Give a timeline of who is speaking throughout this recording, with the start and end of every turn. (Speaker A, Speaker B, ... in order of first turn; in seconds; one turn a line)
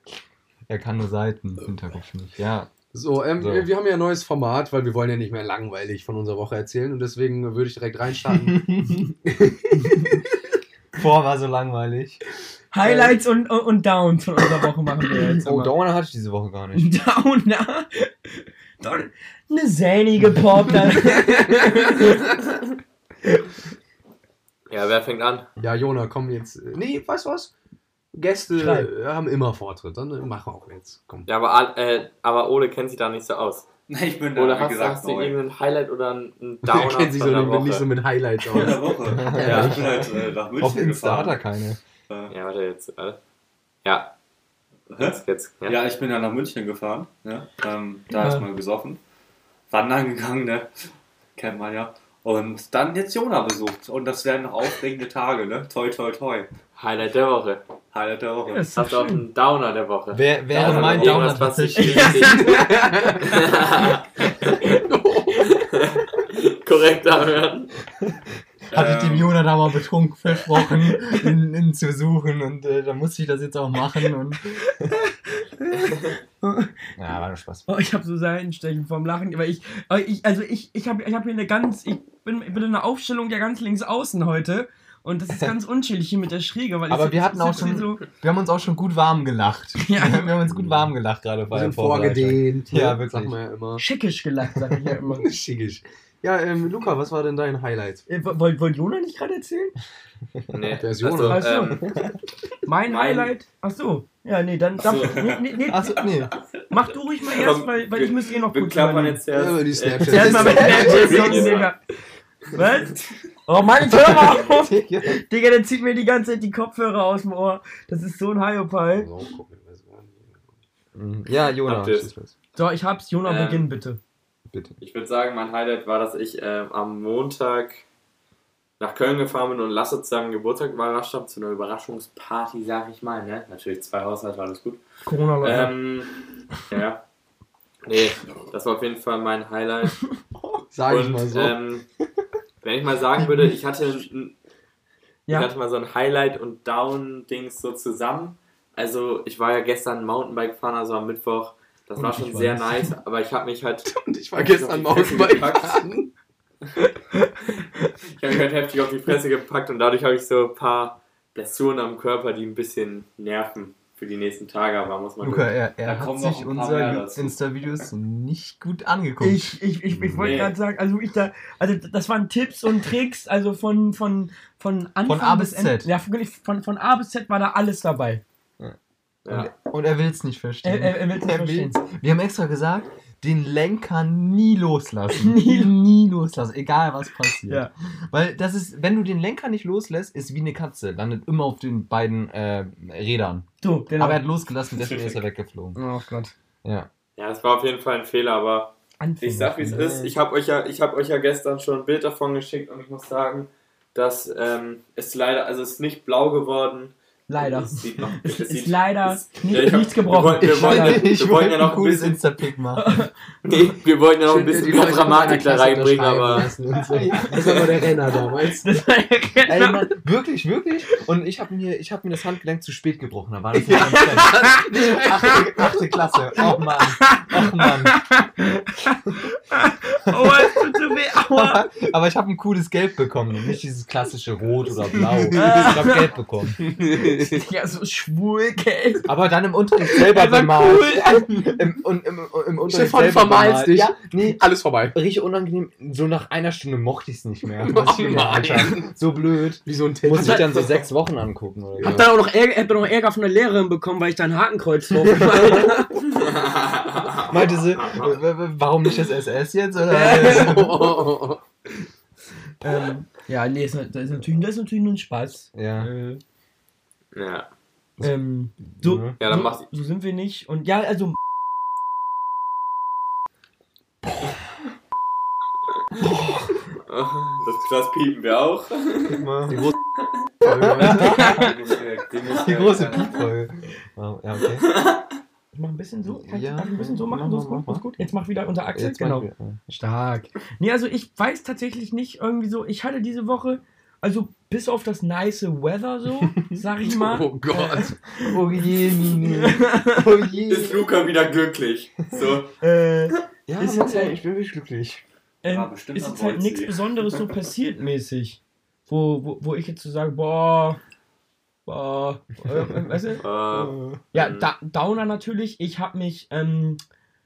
Speaker A: 0.7-2.7
Speaker B: 2.9-10.3
Speaker A: 3.4-3.7
Speaker A: 8.3-9.0
Speaker A: 9.8-10.2
Speaker A: 10.9-12.2
Speaker C: 12.7-15.7
Speaker A: 12.8-13.1
Speaker A: 15.4-16.9
Speaker C: 16.8-22.3
Speaker C: 23.3-23.6
Speaker D: 24.7-25.5
Speaker B: 25.6-27.5
Speaker B: 28.1-31.3
Speaker C: 28.5-28.9
Speaker D: 31.3-33.7
Speaker E: 33.9-35.4
Speaker D: 34.4-37.9
Speaker B: 36.6-40.2
Speaker E: 38.5-41.4
Speaker A: 39.1-39.9
Speaker A: 40.6-41.8
Speaker E: 42.1-42.4
Speaker D: 42.3-43.2
Speaker D: 43.8-44.1
Speaker E: 44.9-49.0
Speaker D: 45.0-45.8
Speaker C: 48.1-48.5
Speaker E: 49.7-56.5
Speaker D: 56.8-57.6
Speaker E: 57.9-58.8
Speaker C: 58.5-59.2
Speaker D: 58.8-62.6
Speaker A: 60.1-62.4
Speaker E: 60.6-61.2
Speaker C: 61.8-63.3
Speaker B: 62.3-63.5
Speaker D: 63.2-64.7
Speaker B: 64.5-65.8
Speaker D: 65.5-67.7
Speaker A: 68.7-74.9
Speaker E: 68.7-69.3
Speaker C: 70.6-71.3
Speaker C: 75.7-76.8
Speaker A: 77.0-77.7
Speaker C: 77.7-88.0
Speaker A: 86.9-93.4
Speaker C: 89.8-90.4
Speaker B: 90.5-90.9
Speaker B: 91.5-93.8
Speaker C: 93.8-95.3
Speaker A: 94.6-94.9
Speaker B: 95.2-98.0
Speaker C: 98.1-99.8
Speaker D: 100.5-102.0
Speaker B: 100.7-101.5
Speaker C: 101.3-101.8
Speaker A: 101.8-102.2
Speaker C: 102.7-106.0
Speaker D: 102.9-103.3
Speaker D: 104.8-105.4
Speaker A: 105.7-106.3
Speaker C: 106.7-109.2
Speaker D: 107.3-111.7
Speaker B: 109.3-111.6
Speaker C: 110.1-111.8
Speaker A: 110.2-111.2
Speaker C: 112.5-119.1
Speaker A: 113.8-115.2
Speaker B: 119.0-120.5
Speaker A: 121.0-122.3
Speaker D: 121.6-122.1
Speaker C: 122.5-124.0
Speaker D: 123.2-123.7
Speaker A: 124.5-124.8
Speaker D: 124.8-127.8
Speaker D: 128.8-134.8
Speaker C: 135.1-135.8
Speaker D: 135.4-136.1
Speaker D: 136.7-137.0
Speaker D: 137.8-140.1
Speaker B: 140.7-141.6
Speaker D: 140.9-141.8
Speaker D: 142.6-144.3
Speaker A: 143.2-143.5
Speaker D: 145.3-155.9
Speaker C: 152.0-152.9
Speaker B: 153.9-156.1
Speaker C: 156.8-157.9
Speaker D: 158.2-165.5
Speaker A: 165.2-170.3
Speaker E: 165.8-167.9
Speaker C: 169.2-178.2
Speaker D: 170.2-170.5
Speaker A: 175.1-175.9
Speaker D: 179.2-179.5
Speaker A: 179.3-195.8
Speaker C: 180.6-181.8
Speaker C: 185.1-185.7
Speaker C: 193.6-194.2
Speaker D: 194.8-195.2
Speaker C: 195.8-196.3
Speaker A: 196.6-196.9
Speaker D: 197.2-212.2
Speaker C: 199.0-199.9
Speaker A: 199.6-200.1
Speaker C: 207.3-211.1
Speaker A: 210.4-212.9
Speaker C: 212.8-213.1
Speaker D: 213.4-216.5
Speaker B: 214.2-218.7
Speaker A: 216.9-217.7
Speaker D: 217.3-217.9
Speaker C: 218.6-220.0
Speaker A: 219.5-228.1
Speaker C: 223.6-224.7
Speaker B: 223.7-225.8
Speaker C: 226.4-231.6
Speaker A: 230.1-230.7
Speaker A: 231.3-236.6
Speaker B: 235.0-235.6
Speaker C: 235.3-236.1
Speaker B: 236.6-237.4
Speaker C: 237.2-239.1
Speaker A: 239.1-252.0
Speaker C: 239.8-241.7
Speaker B: 242.7-245.0
Speaker B: 247.7-248.9
Speaker B: 249.6-250.7
Speaker C: 250.2-250.6
Speaker B: 251.8-252.1
Speaker C: 251.8-256.0
Speaker A: 254.9-255.7
Speaker D: 256.2-258.2
Speaker A: 257.2-261.0
Speaker C: 259.9-261.0
Speaker B: 260.0-261.4
Speaker C: 262.6-266.2
Speaker A: 265.5-265.9
Speaker D: 267.1-267.5
Speaker C: 268.0-271.2
Speaker A: 268.7-269.2
Speaker D: 269.2-269.6
Speaker A: 274.0-274.5
Speaker A: 276.0-276.5
Speaker D: 276.9-279.2
Speaker A: 279.1-279.7
Speaker B: 279.5-279.7
Speaker B: 280.4-281.2
Speaker A: 280.4-281.3
Speaker C: 280.8-281.6
Speaker E: 281.0-283.2
Speaker A: 282.4-284.7
Speaker D: 284.7-285.1
Speaker C: 285.5-298.4
Speaker A: 286.1-288.1
Speaker A: 288.7-289.6
Speaker A: 296.2-296.6
Speaker B: 296.8-298.0
Speaker A: 297.5-300.9
Speaker C: 299.3-300.0
Speaker D: 300.5-302.5
Speaker C: 302.6-304.2
Speaker A: 303.5-305.0
Speaker C: 305.4-310.8
Speaker E: 305.5-307.0
Speaker C: 311.7-313.2
Speaker D: 313.2-314.5
Speaker A: 313.5-314.0
Speaker C: 314.1-316.8